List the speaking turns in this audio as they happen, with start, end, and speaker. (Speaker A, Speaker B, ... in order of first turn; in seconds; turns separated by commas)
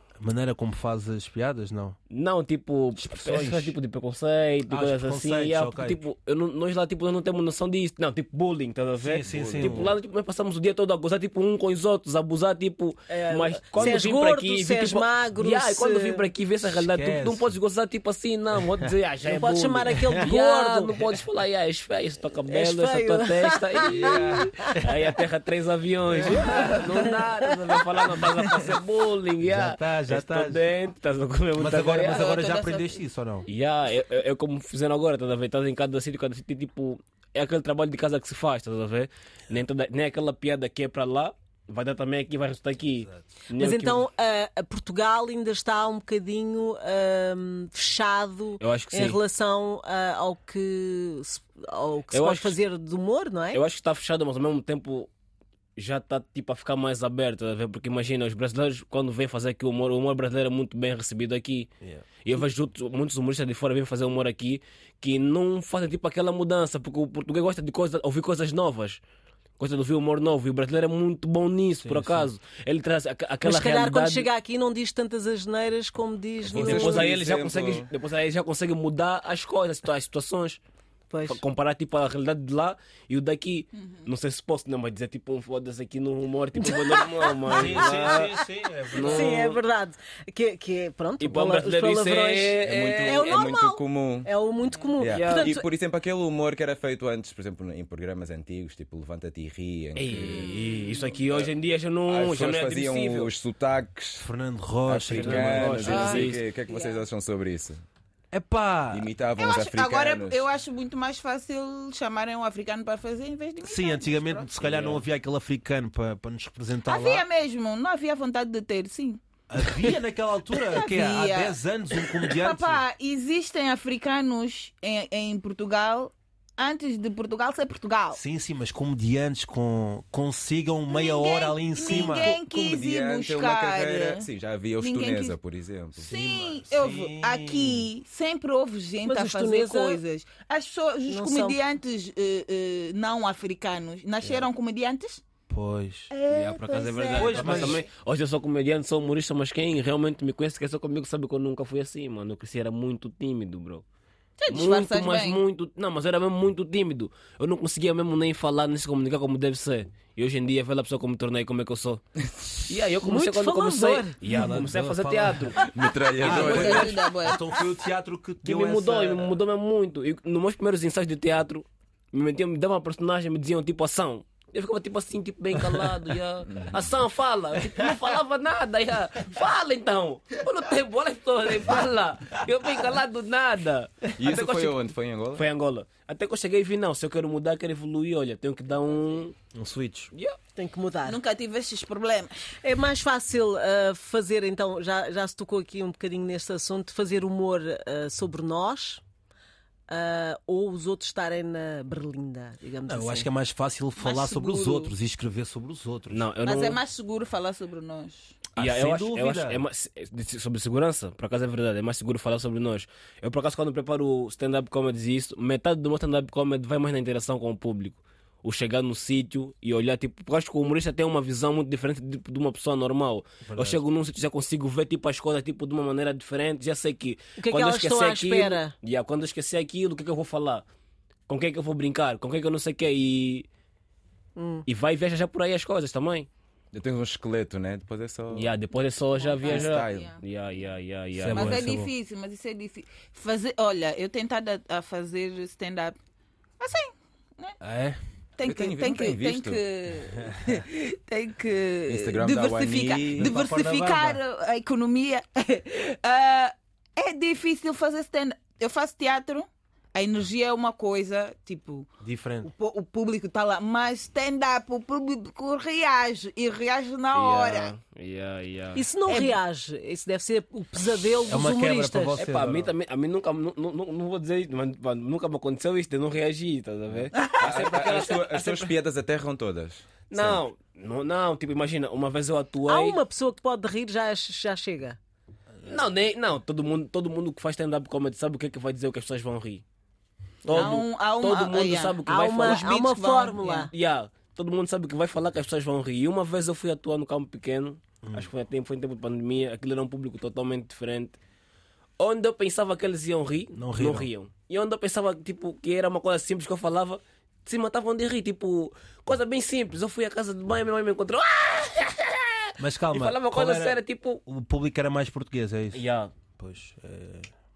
Speaker A: 0.2-2.0, Speaker B: 2.1-32.4, Speaker A: 3.0-3.8, Speaker A: 4.7-6.0, Speaker A: 9.0-10.0, Speaker C: 9.3-9.9, Speaker D: 13.1-16.3, Speaker A: 16.7-17.5, Speaker D: 19.2-21.0, Speaker D: 22.5-24.7, Speaker A: 23.9-24.9, Speaker A: 26.1-26.8, Speaker D: 26.5-27.8, Speaker A: 29.4-30.7, Speaker A: 31.6-33.5, Speaker E: 32.0-33.0, Speaker B: 33.5-44.0, Speaker D: 43.6-53.6, Speaker B: 48.6-49.2, Speaker B: 52.1-52.6, Speaker B: 53.5-55.1, Speaker B: 55.8-61.7, Speaker B: 62.2-69.0, Speaker B: 69.6-74.3, Speaker A: 71.8-72.3, Speaker D: 73.4-77.1, Speaker C: 76.4-77.9, Speaker B: 76.5-80.6, Speaker D: 81.1-81.4, Speaker B: 81.3-89.6, Speaker E: 83.8-84.1, Speaker D: 86.6-88.2, Speaker A: 87.5-89.5, Speaker D: 89.0-95.7, Speaker B: 91.2-93.4, Speaker C: 92.6-94.3, Speaker C: 95.0-101.5, Speaker B: 95.0-95.5, Speaker B: 100.0-103.3, Speaker E: 100.2-101.1, Speaker C: 102.0-104.3, Speaker A: 104.2-106.2, Speaker C: 104.8-107.8, Speaker B: 105.1-106.4, Speaker E: 105.8-107.0, Speaker A: 108.3-109.1, Speaker C: 108.9-110.4, Speaker E: 109.4-114.6, Speaker A: 113.6-117.2, Speaker B: 114.7-115.0, Speaker E: 116.8-119.9, Speaker A: 119.5-122.8, Speaker E: 120.6-128.2, Speaker A: 128.1-132.4, Speaker E: 130.9-134.3, Speaker C: 131.8-136.1, Speaker E: 134.8-135.4, Speaker A: 136.0-137.9, Speaker E: 136.0-145.2, Speaker D: 139.0-140.0, Speaker D: 141.1-141.6, Speaker A: 145.5-146.1, Speaker E: 146.1-147.8, Speaker B: 146.3-153.8, Speaker A: 147.2-147.8, Speaker E: 154.4-155.4, Speaker B: 154.5-162.0, Speaker B: 162.7-165.7, Speaker D: 163.0-164.2, Speaker A: 164.2-165.6, Speaker C: 165.6-167.1, Speaker A: 166.2-169.4, Speaker E: 166.2-167.7, Speaker B: 166.3-166.6, Speaker B: 168.4-189.3, Speaker C: 176.5-176.8, Speaker C: 184.2-185.4, Speaker A: 189.5-190.1, Speaker D: 190.6-191.2, Speaker E: 191.0-192.5, Speaker D: 192.6-199.0, Speaker D: 199.9-203.3, Speaker A: 202.8-206.2, Speaker E: 204.0-204.9, Speaker B: 206.1-206.8, Speaker E: 206.4-208.4, Speaker A: 208.5-209.6, Speaker B: 208.6-230.6, Speaker A: 223.4-223.8, Speaker D: 227.4-228.7, Speaker B: 231.3-233.5, Speaker D: 234.3-234.7, Speaker B: 234.7-236.3, Speaker C: 236.7-238.5, Speaker B: 238.3-241.6, Speaker E: 239.2-240.2, Speaker C: 239.4-240.2, Speaker A: 241.2-241.9, Speaker E: 241.3-246.0, Speaker E: 246.6-247.6, Speaker A: 247.6-248.0, Speaker E: 248.4-261.9, Speaker C: 248.4-249.6, Speaker C: 251.9-253.4, Speaker A: 253.2-254.2, Speaker A: 262.0-262.5, Speaker E: 262.4-267.7, Speaker B: 267.1-268.9, Speaker D: 268.7-272.2, Speaker E: 269.1-269.4, Speaker A: 271.3-272.7, Speaker B: 272.1-278.7, Speaker E: 277.1-277.4, Speaker C: 277.4-280.4, Speaker B: 280.1-283.0, Speaker D: 282.7-285.0, Speaker B: 285.6-289.6, Speaker B: 290.4-292.9, Speaker E: 290.5-293.7, Speaker D: 292.1-293.7, Speaker B: 293.5-301.2, Speaker B: 302.0-314.2, Speaker A: 303.5-304.1, Speaker A: 312.6-315.8, Speaker B: 315.7-316.1, Speaker A: 316.4-317.3